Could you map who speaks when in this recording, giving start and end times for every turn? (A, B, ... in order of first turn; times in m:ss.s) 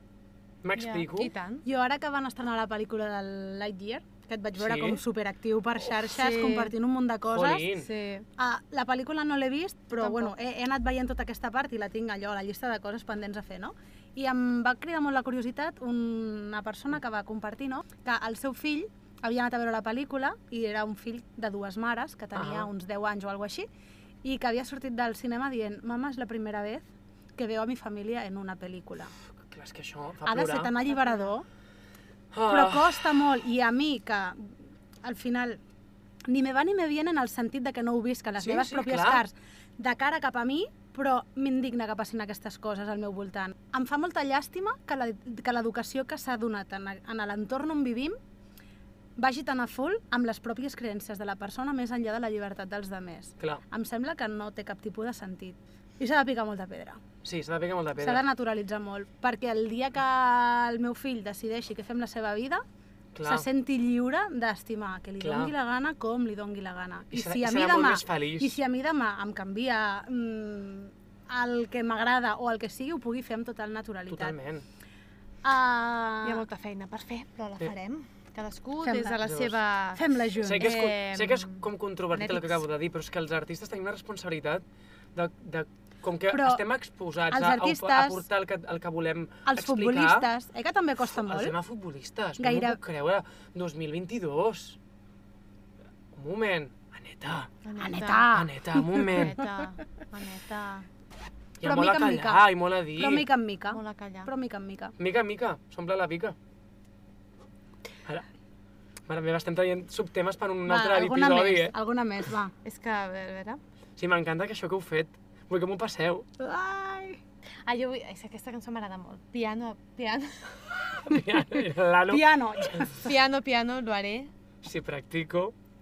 0:00.6-0:01.3 A
0:00.8-0:01.6 B
0:01.6-0:07.7 C
0:04.6-0:05.0 A
0:06.0-0:06.7 B
0:07.3-0:07.9 A
0:07.7-0:08.3 B
0:08.4-0:23.7 C
0:10.0-0:10.3 B
0:22.4-0:22.7 A
0:24.2-0:29.1 C
0:29.5-0:30.7 A
0:30.3-0:31.5 C
0:32.3-0:33.0 A
0:32.5-0:35.6 C
0:36.3-0:48.2 C
0:38.4-0:39.2 A
0:49.2-0:57.0 C
0:57.2-0:58.2 A
0:58.0-1:02.6 C
1:03.2-1:03.5 A
1:03.2-1:14.4 C
1:05.2-1:05.5 A
1:07.1-1:08.6 A
1:14.1-1:14.6 A
1:15.4-1:16.4 C
1:16.2-1:22.6 B
1:18.8-1:19.2 C
1:19.2-1:19.6 A
1:20.0-1:20.7 C
1:20.4-1:24.6 A
1:25.2-1:30.3 A
1:26.3-1:26.6 C
1:27.3-1:28.2 C
1:29.5-1:31.6 C
1:31.2-1:34.8 A
1:32.4-1:32.8 C
1:36.1-1:37.5 A
1:37.6-1:38.3 B
1:37.8-1:39.3 C
1:38.3-1:39.4 A
1:39.0-1:40.9 B
1:41.6-1:43.3 A
1:41.6-1:44.9 C
1:43.7-1:44.3 B
1:45.0-1:46.4 A
1:49.1-1:51.7 A
1:50.7-1:52.5 C
1:52.6-1:53.6 B
1:54.0-1:56.3 A
1:56.4-1:57.2 C
1:57.6-2:01.0 B
2:01.0-2:02.9 A
2:02.1-2:03.0 C
2:03.0-2:04.3 B
2:04.6-2:05.6 A